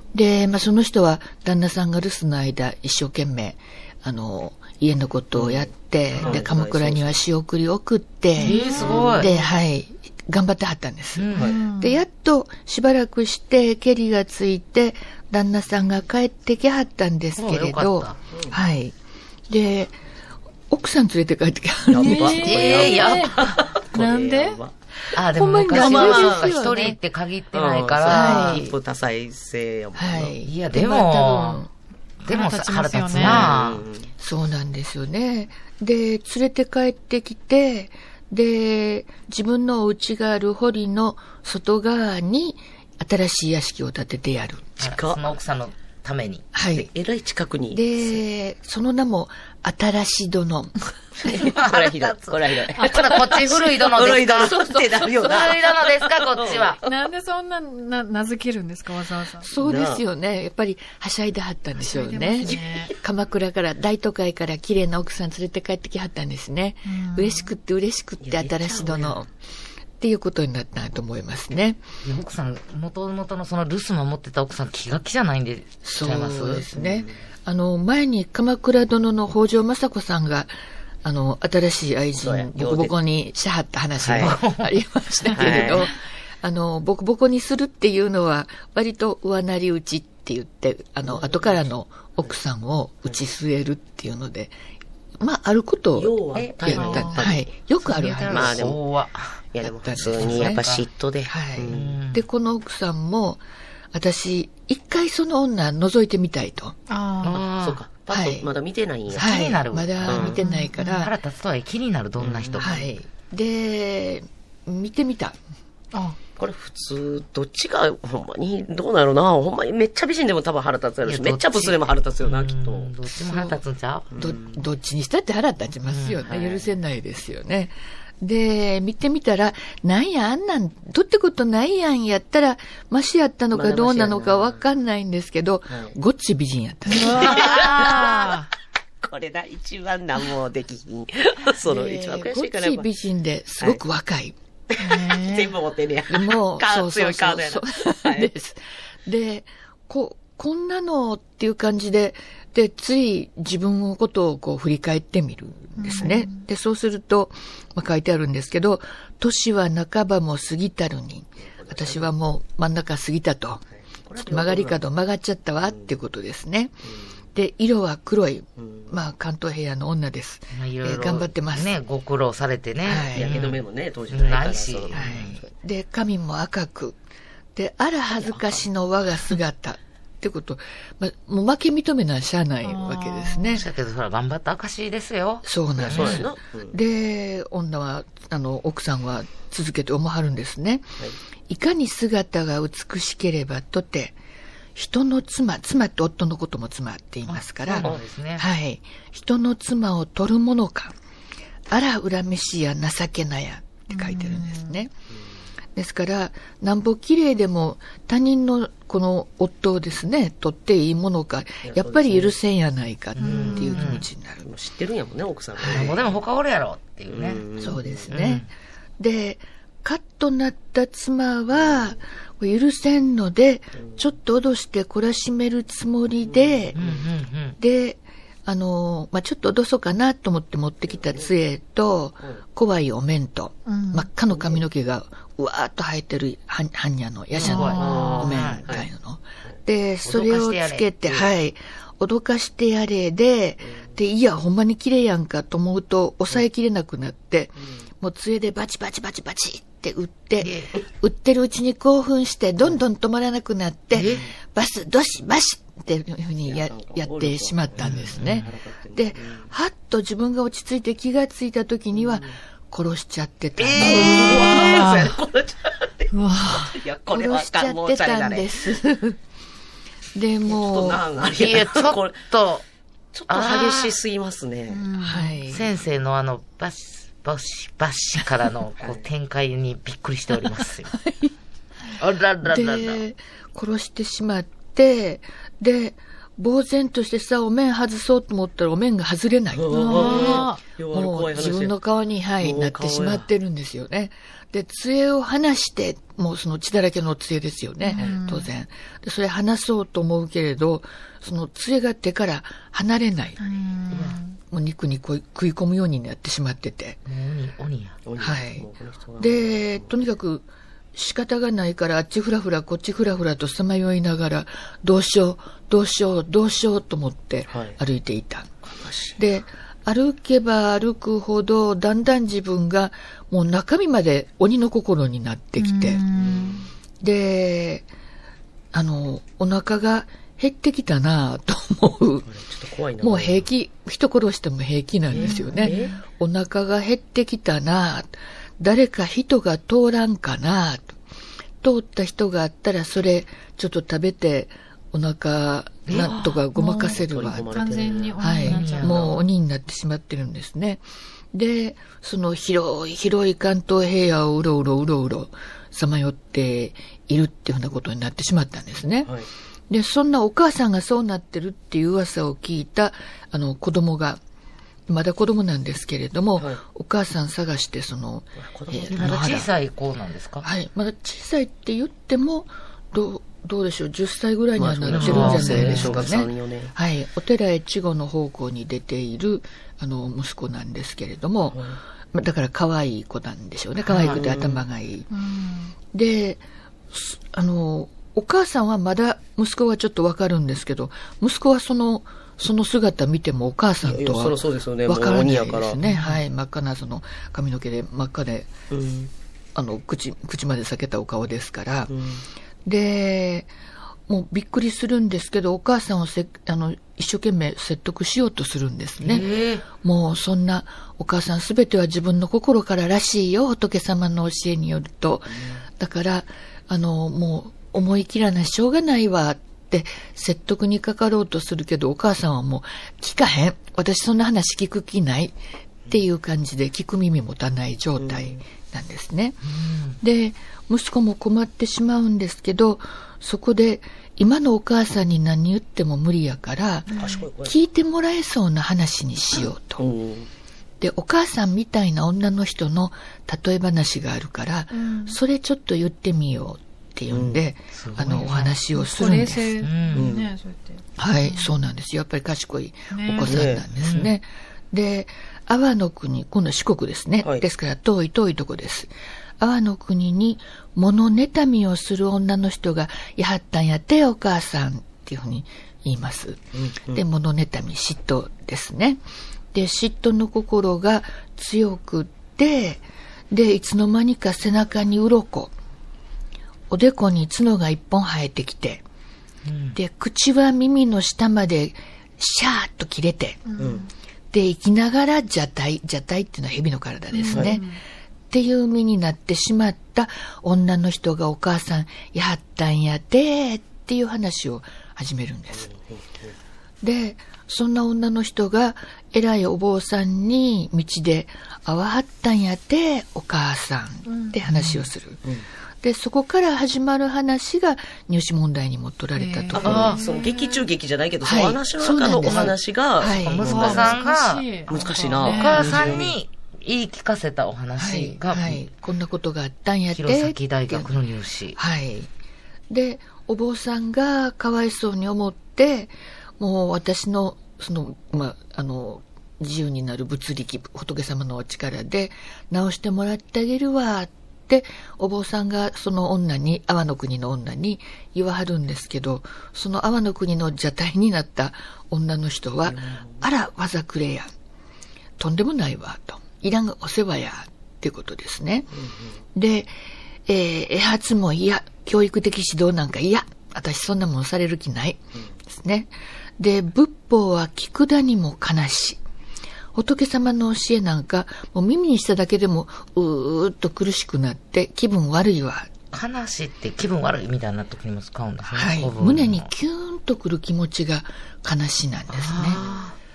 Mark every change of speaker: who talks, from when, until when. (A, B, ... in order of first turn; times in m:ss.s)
0:00.1-0:18.9 A
0:05.3-0:07.2 B
0:08.4-0:09.3 C
0:08.4-0:08.8 D
0:08.7-0:09.5 B
0:11.2-0:11.5 C
0:11.4-0:12.0 D
0:17.3-0:18.2 C
0:18.3-0:18.6 B
0:19.5-0:20.0 A
0:20.7-0:22.8 A
0:21.9-0:24.7 B
0:22.0-0:24.6 D
0:22.2-0:23.6 C
0:25.1-0:27.0 A
0:25.1-0:28.7 C
0:25.7-0:26.6 B
0:27.5-0:30.4 B
0:28.1-0:28.7 A
0:30.0-0:31.7 A
0:30.4-0:31.6 C
0:32.2-0:33.8 C
0:32.3-0:33.4 D
0:33.1-0:34.1 B
0:33.2-0:33.5 A
0:34.2-0:44.7 A
0:44.8-0:45.3 B
0:44.8-0:46.9 C
0:46.5-0:46.9 A
0:46.9-0:48.2 B
0:47.7-0:51.5 A
0:51.2-0:56.9 B
0:51.2-0:56.8 C
0:54.5-0:55.2 A
0:56.8-0:59.5 D
0:59.4-1:09.3 A
0:59.6-1:00.0 B
1:01.8-1:02.9 D
1:06.8-1:07.5 D
1:08.2-1:09.2 B
1:10.0-1:11.8 A
1:12.0-1:16.6 C
1:15.8-1:20.5 A
1:16.7-1:17.2 B
1:21.0-1:34.6 A
1:22.1-1:22.9 B
1:24.0-1:24.4 B
1:24.2-1:24.8 C
1:25.3-1:25.9 B
1:25.3-1:25.6 C
1:31.0-1:31.7 B
1:35.2-1:38.7 A
1:35.9-1:37.4 B
1:36.3-1:37.2 C
1:36.8-1:37.1 D
1:37.8-1:39.4 C
1:38.3-1:38.8 B
1:39.5-1:41.9 B
1:39.6-1:40.6 A
1:40.0-1:40.8 C
1:41.3-1:46.8 A
1:41.7-1:42.2 C
1:46.9-1:47.4 D
1:47.2-1:47.8 C
1:47.3-1:49.4 B
1:48.1-1:48.5 A
1:49.1-1:52.9 C
1:49.2-1:51.1 A
1:50.0-1:50.4 B
1:50.4-1:51.1 D
1:52.2-1:52.8 B
1:52.6-1:55.4 A
1:56.4-2:02.9 B
2:01.0-2:04.1 C
2:03.2-2:03.6 A
2:04.1-2:04.6 B
2:04.2-2:17.9 A
2:05.9-2:06.2 C
2:06.2-2:06.7 B
2:13.5-2:14.6 B
2:15.7-2:16.0 B
2:16.9-2:18.5 D
2:16.9-2:18.4 B
2:19.0-2:22.9 B
2:21.6-2:24.3 A
2:24.7-2:28.3 B
2:24.8-2:25.5 D
2:26.1-2:43.6 A
2:35.8-2:36.4 D
2:41.4-2:42.1 B
2:43.9-2:44.8 B
2:44.2-2:46.8 A
2:45.6-2:45.9 B
2:47.3-2:51.7 A
2:48.6-2:48.9 B
2:50.5-2:55.4 C
2:52.8-2:53.5 A
2:53.1-2:55.5 B
2:54.9-2:57.0 A
2:57.5-3:03.7 A
2:58.1-2:58.7 B
3:02.6-3:03.6 D
3:03.5-3:06.3 C
3:05.4-3:11.0 A
3:05.8-3:06.8 B
3:11.5-3:14.2 A
3:14.7-3:21.0 A
3:17.3-3:18.4 C
3:21.7-3:24.9 A
3:23.9-3:24.7 D
3:25.7-3:34.5 A
3:31.6-3:32.4 B
3:33.2-3:34.1 C
3:33.2-3:34.0 D
3:33.2-3:33.8 B
3:34.4-3:36.2 B
3:35.6-3:36.0 A
3:35.6-3:37.4 C
3:37.1-3:38.1 B
3:37.6-3:46.8 A
3:38.1-3:38.5 C
3:41.5-3:42.0 B
3:43.8-3:44.0 B
3:46.2-3:47.0 B
3:46.7-3:47.6 C
3:47.6-4:24.9 A
3:50.9-3:51.3 B
3:53.6-3:54.1 D
3:54.3-3:54.6 B
3:57.3-3:58.6 C
3:57.4-3:58.3 D
3:57.7-3:58.8 B
4:00.0-4:01.3 C
4:03.6-4:03.9 B
4:10.4-4:10.7 C
4:13.9-4:14.2 C
4:14.0-4:14.3 B
4:16.4-4:19.5 B
4:17.8-4:18.4 C
4:21.9-4:22.4 B
4:23.6-4:28.7 B
4:23.8-4:24.1 C
4:24.0-4:25.2 D
4:26.1-4:26.8 D
4:27.1-4:29.2 A
4:30.1-4:31.0 A
4:30.5-4:32.2 B
4:31.2-4:32.6 C
4:33.1-4:34.9 B
4:33.3-4:34.0 C
4:34.7-4:35.4 D
4:35.0-4:35.7 A
4:35.5-4:40.9 C
4:38.8-4:39.0 B
4:40.9-4:41.3 A
4:42.0-4:43.0 C
4:42.4-4:50.4 A
4:49.5-4:51.8 B
4:49.7-4:50.6 D
4:49.9-4:50.5 C
4:50.9-5:03.4 A
4:52.4-4:53.3 B
4:57.8-4:58.5 D
5:03.4-5:04.4 D
5:03.9-5:04.2 C
5:04.5-5:07.0 A
5:07.0-5:08.0 C
5:08.0-5:09.9 B
5:08.2-5:08.6 A
5:09.2-5:18.5 A
5:17.5-5:17.8 B
5:18.6-5:19.2 B
5:19.2-5:26.0 A
5:25.6-5:26.5 D
5:26.1-5:26.7 B
5:27.0-5:27.9 A
5:28.7-5:32.3 A
5:32.2-5:33.5 B
5:33.0-5:40.9 A
5:35.1-5:36.0 B
5:35.2-5:36.0 D
5:41.6-5:59.1 A
5:45.9-5:46.4 C
5:46.5-5:49.1 D
5:46.9-5:49.2 B
5:48.4-5:49.1 C
5:59.0-5:59.3 B
5:59.7-6:04.2 A
6:04.9-6:09.5 A
6:06.4-6:06.6 B
6:08.4-6:09.4 B
6:08.9-6:10.5 C
6:10.4-6:25.1 A
6:14.6-6:16.7 B
6:14.9-6:16.1 C
6:21.5-6:21.8 B
6:23.8-6:24.2 C
6:24.0-6:24.6 B
6:25.1-6:25.7 D
6:25.8-6:38.5 A
6:33.8-6:35.8 B
6:35.8-6:36.2 C
6:38.7-6:39.1 B
6:39.5-6:41.9 A
6:41.9-6:42.2 B
6:42.6-6:43.5 A
6:44.1-7:19.8 A
6:49.0-6:49.6 C
7:08.0-7:08.4 B
7:09.5-7:10.0 C
7:16.9-7:17.2 D
7:16.9-7:17.6 B
7:19.4-7:20.3 B
7:20.8-7:29.7 A
7:24.7-7:25.2 D
7:27.1-7:27.4 B
7:27.7-7:30.1 C
7:28.7-7:31.5 D
7:29.9-7:30.3 B
7:31.0-7:55.5 A
7:32.9-7:33.4 D
7:33.2-7:33.6 B
7:33.8-7:34.1 C
7:46.5-7:47.0 B
7:56.7-7:58.8 A
7:59.4-7:59.8 C
7:59.7-8:03.4 A
8:03.4-8:03.9 D
8:03.6-8:03.9 B
8:04.3-8:07.8 A
8:07.1-8:07.8 D
8:07.2-8:07.6 B
8:08.3-8:15.7 A
8:15.5-8:16.3 B
8:16.8-8:25.2 A
8:24.0-8:24.7 D
8:25.8-8:30.0 A
8:29.2-8:30.2 D
8:29.5-8:30.6 C
8:29.5-8:34.0 B
8:31.2-8:34.0 A
8:32.2-8:38.6 C
8:33.4-8:35.9 D
8:34.7-8:36.1 B
8:37.8-8:41.0 A
8:39.9-8:41.6 C
8:41.5-8:42.1 A
8:42.7-9:04.3 A
9:02.6-9:03.3 B
9:05.2-9:08.7 A
9:08.7-9:09.1 B
9:09.3-9:09.7 A
9:10.3-9:19.0 A
9:19.7-9:25.7 A
9:25.9-9:29.5 C
9:28.5-9:32.6 A
9:32.1-9:32.9 C
9:32.6-9:32.8 B